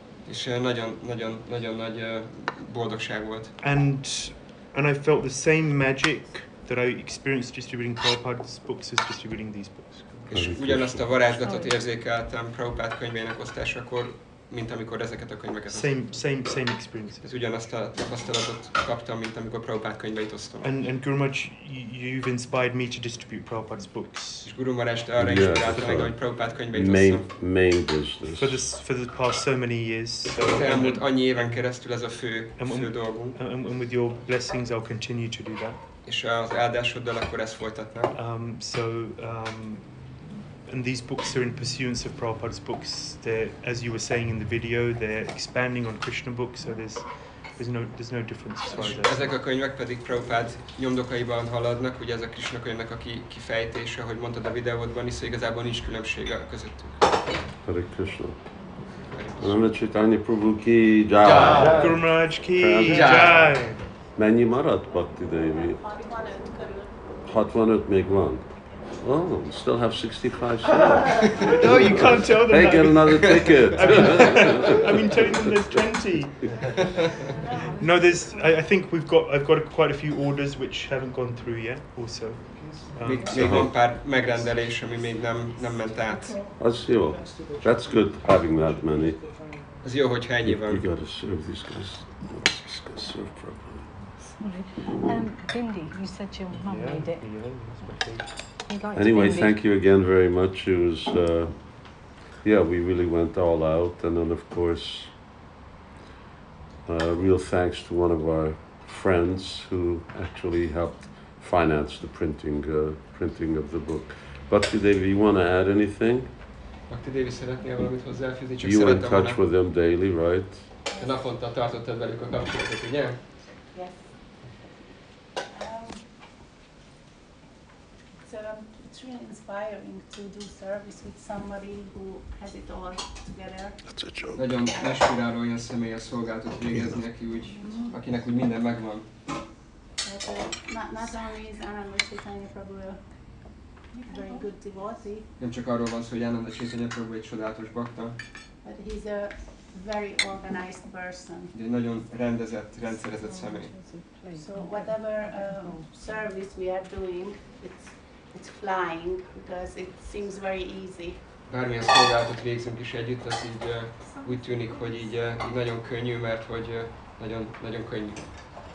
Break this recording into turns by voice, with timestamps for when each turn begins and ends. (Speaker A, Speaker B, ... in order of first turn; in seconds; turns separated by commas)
Speaker A: 0.3-3.5, Speaker B: 3.6-10.4, Speaker A: 10.3-16.1, Speaker C: 10.3-11.2, Speaker D: 11.4-11.8, Speaker B: 15.7-17.3, Speaker A: 17.2-20.8, Speaker B: 20.6-24.5, Speaker A: 24.4-27.3, Speaker C: 25.2-28.6, Speaker B: 25.7-26.1, Speaker B: 28.3-31.1, Speaker A: 30.4-33.4, Speaker B: 32.6-35.8, Speaker A: 36.0-38.1, Speaker B: 38.1-40.0, Speaker B: 40.7-49.3, Speaker A: 48.7-57.0, Speaker C: 57.6-58.4, Speaker A: 59.1-59.7, Speaker C: 59.4-63.4, Speaker A: 61.2-61.9, Speaker B: 61.5-63.9, Speaker A: 62.9-63.6, Speaker C: 64.2-65.8, Speaker E: 65.4-67.2, Speaker C: 67.3-68.5, Speaker C: 69.0-75.5, Speaker B: 71.4-76.5, Speaker A: 73.2-74.5, Speaker E: 76.5-78.5, Speaker B: 77.8-83.4, Speaker A: 83.0-86.4, Speaker C: 83.3-83.8, Speaker C: 86.6-89.2, Speaker A: 89.8-90.8, Speaker C: 90.4-93.9, Speaker D: 94.4-97.2, Speaker B: 96.5-98.3, Speaker D: 98.6-99.5, Speaker C: 98.9-105.1, Speaker C: 106.9-116.3, Speaker A: 116.9-119.4, Speaker C: 118.6-120.7, Speaker E: 120.9-121.2, Speaker A: 120.9-123.2, Speaker E: 123.7-124.5, Speaker E: 125.5-126.1, Speaker E: 128.2-133.9, Speaker C: 133.9-134.4, Speaker A: 134.3-139.1, Speaker E: 140.0-145.3, Speaker A: 145.4-148.2, Speaker E: 148.6-151.5, Speaker A: 151.5-153.8, Speaker D: 153.2-155.8, Speaker E: 154.3-161.2, Speaker A: 161.5-168.2